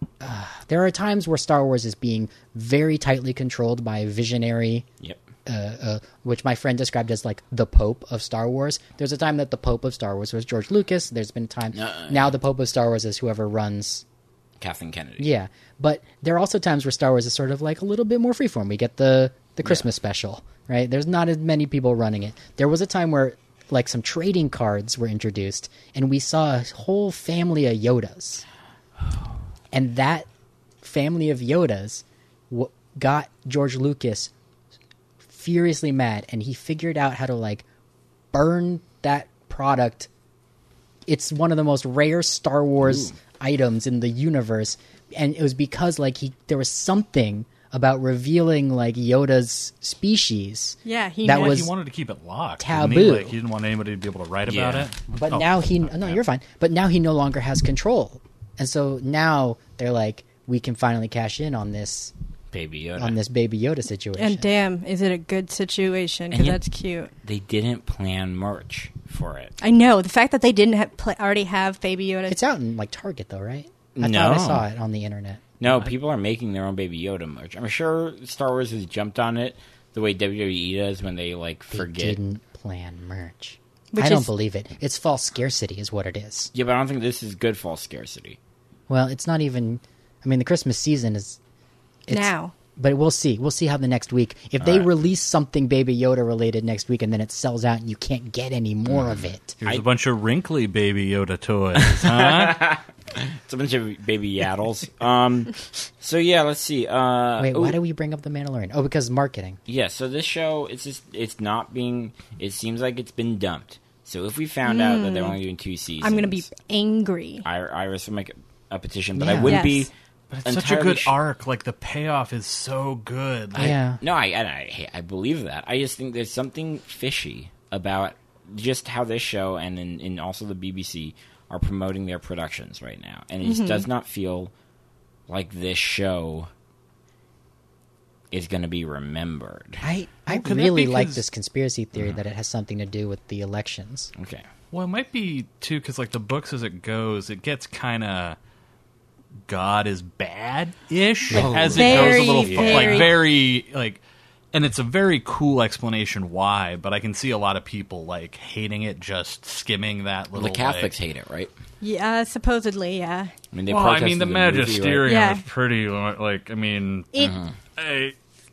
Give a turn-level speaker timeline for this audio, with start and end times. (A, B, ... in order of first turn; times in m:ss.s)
0:00.2-0:04.8 A
0:05.4-0:14.0 A
0:11.7-0:12.3 B
0:14.6-0:15.3 B
0:15.2-0:28.4 A
0:29.7-0:30.3 A
0:30.8-0:34.3 A
0:35.3-0:37.6 A
0:38.3-0:40.1 A
0:41.1-0:51.7 A
0:42.8-0:43.2 B
0:50.8-0:51.7 C
0:51.3-0:55.5 D
0:52.6-0:53.4 A
0:54.5-0:54.9 B
0:55.1-1:02.1 A
1:02.5-1:03.2 B
1:03.0-1:04.5 A
1:04.2-1:07.1 C
1:06.3-1:06.6 B
1:07.2-1:09.5 B
1:09.6-1:12.4 C
1:12.3-1:15.9 A
1:14.0-1:14.6 B
1:15.6-1:22.2 B
1:21.7-1:26.5 A
1:23.9-1:24.3 C
1:26.5-1:28.4 B
1:28.9-1:31.4 A
1:32.1-1:39.6 A
1:32.1-1:32.5 C
1:34.6-1:34.9 B
1:38.9-1:39.8 B
1:39.6-1:42.6 D
1:41.8-1:47.8 B
1:47.4-1:49.6 A
1:49.7-1:56.5 B
1:54.6-1:55.4 C
1:56.0-1:57.4 C
1:57.4-1:59.9 B
1:59.1-1:59.6 A
1:59.4-1:59.9 C
2:00.3-2:03.8 D
2:00.4-2:01.1 B
2:03.5-2:14.5 B
2:03.6-2:04.0 A
2:13.4-2:13.8 C
2:15.3-2:16.5 B
2:18.3-2:19.8 B
2:19.8-2:24.1 A
2:20.3-2:21.2 D
2:24.1-2:24.4 B
2:24.7-2:28.4 D
2:29.5-2:34.0 D
2:31.3-2:33.2 B
2:31.3-2:31.6 A
2:31.7-2:33.1 C
2:34.5-2:40.9 D
2:40.3-2:41.5 B
2:41.8-2:43.3 C
2:43.5-2:45.1 B
2:43.7-2:47.2 D
2:45.0-2:45.4 C
2:47.2-2:47.5 B
2:47.8-2:48.2 D